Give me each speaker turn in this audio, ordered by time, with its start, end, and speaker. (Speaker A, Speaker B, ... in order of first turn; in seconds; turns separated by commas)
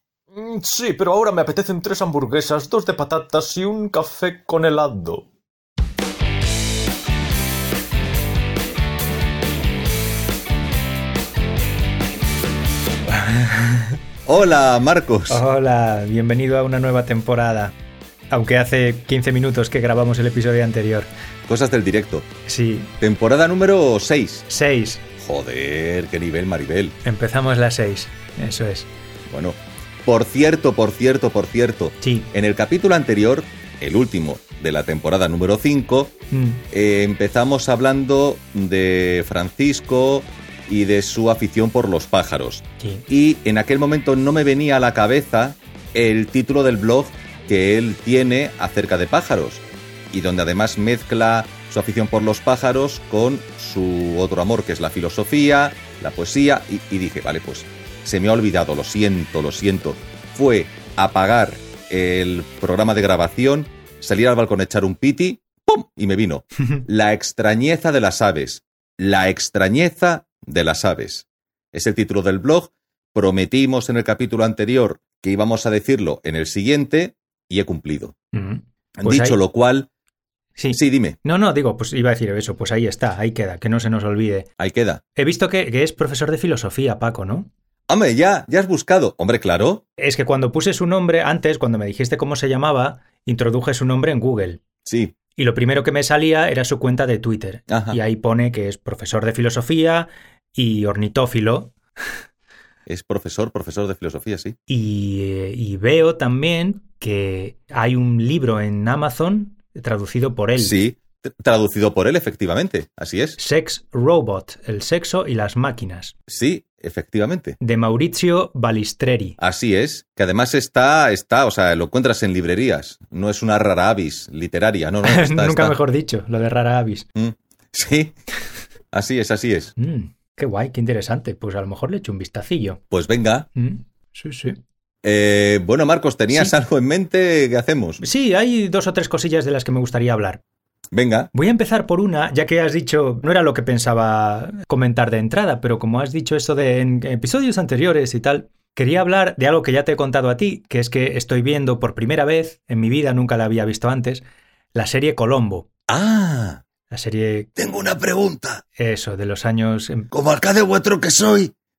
Speaker A: 0.3-5.2, Speaker B: 13.1-14.0, Speaker C: 14.2-15.4, Speaker B: 15.3-17.7, Speaker B: 18.3-21.1, Speaker C: 21.5-22.3, Speaker B: 22.4-22.9, Speaker C: 23.0-24.5, Speaker B: 24.5-25.0, Speaker C: 25.2-27.0, Speaker B: 27.0-28.9, Speaker C: 29.3-36.1, Speaker B: 32.0-32.3, Speaker B: 36.3-36.6, Speaker C: 36.7-78.1, Speaker B: 42.8-43.0, Speaker B: 78.3-79.4, Speaker C: 79.0-79.9, Speaker B: 80.6-84.5, Speaker C: 80.7-81.2, Speaker C: 84.6-85.0, Speaker B: 85.2-87.5, Speaker C: 87.9-89.8, Speaker B: 90.0-94.6, Speaker C: 94.8-95.1, Speaker B: 95.4-101.7, Speaker C: 97.7-98.0, Speaker C: 102.8-104.6, Speaker B: 104.7-110.8, Speaker C: 110.6-113.4, Speaker B: 113.4-116.1, Speaker C: 116.3-117.6, Speaker B: 117.6-119.4, Speaker C: 119.4-125.7, Speaker B: 125.0-127.1, Speaker C: 127.2-128.2, Speaker C: 128.9-129.7, Speaker B: 129.8-132.8, Speaker C: 132.9-133.5, Speaker B: 133.5-134.6, Speaker C: 135.0-138.0, Speaker B: 138.0-140.4, Speaker C: 140.9-141.3, Speaker B: 141.3-155.7, Speaker C: 155.9-156.6, Speaker B: 156.9-157.5, Speaker C: 157.6-158.6, Speaker B: 158.8-160.1, Speaker C: 160.1-161.5